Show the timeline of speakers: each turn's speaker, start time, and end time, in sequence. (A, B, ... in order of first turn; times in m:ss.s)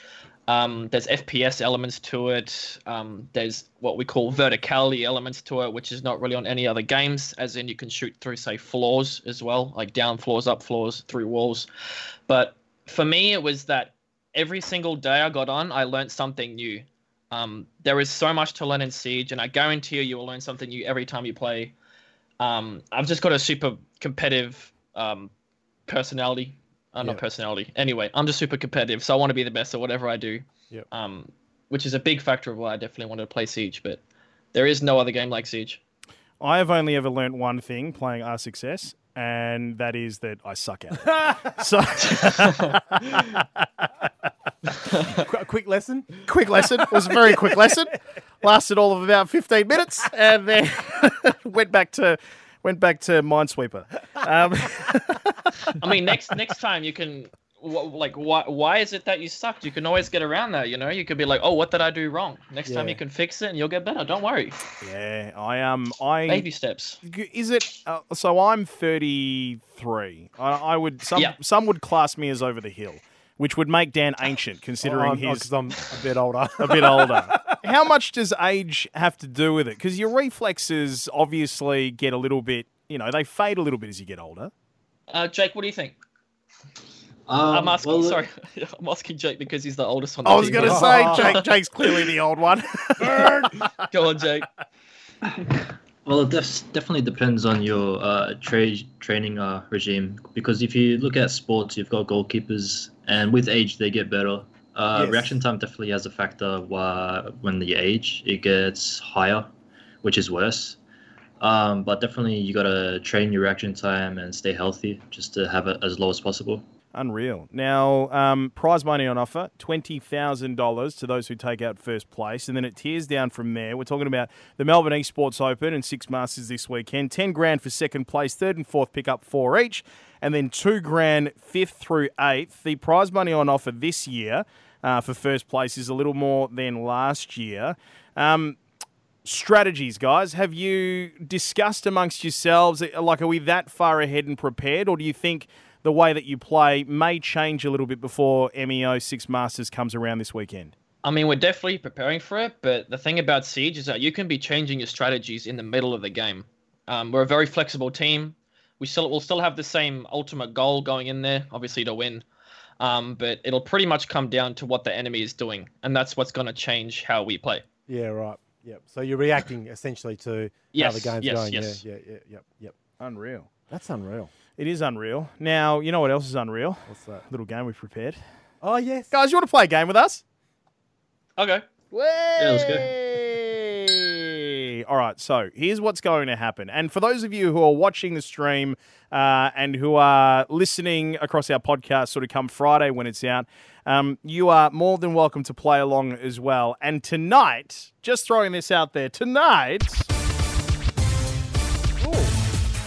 0:00.5-0:11.7 A
0:12.3-0:21.7 A
0:22.4-0:25.3 A
0:25.9-0:34.0 A
0:34.5-0:35.8 A
0:36.4-0:43.9 B
0:42.2-0:42.7 A
0:45.1-0:46.3 C
0:46.2-0:55.8 B
0:47.0-0:47.6 C
0:55.8-1:04.6 A
1:02.6-1:03.0 C
1:04.8-1:06.4 B
1:06.3-1:07.0 A
1:07.0-1:15.5 B
1:14.8-1:17.6 C
1:16.6-1:24.5 B
1:25.1-1:26.0 A
1:27.3-1:28.2 D
1:27.5-1:32.1 A
1:30.2-1:33.7 B
1:30.6-1:31.4 C
1:33.7-1:34.5 A
1:36.0-1:49.5 D
1:44.9-1:45.4 C
1:50.0-1:50.8 D
1:51.4-1:56.6 D
1:56.9-2:18.6 B
2:19.2-2:30.7 B
2:31.0-2:42.2 A
2:42.8-2:47.6 A
2:47.9-2:52.7 C
2:50.7-2:51.8 A
2:53.0-2:53.5 B
2:53.7-2:54.3 C
2:54.6-2:58.2 B
2:56.9-2:57.2 C
2:58.6-2:59.1 C
2:59.1-3:00.2 B
3:01.4-3:01.6 A
3:01.9-3:20.1 B
3:02.4-3:02.9 D
3:22.0-3:22.3 C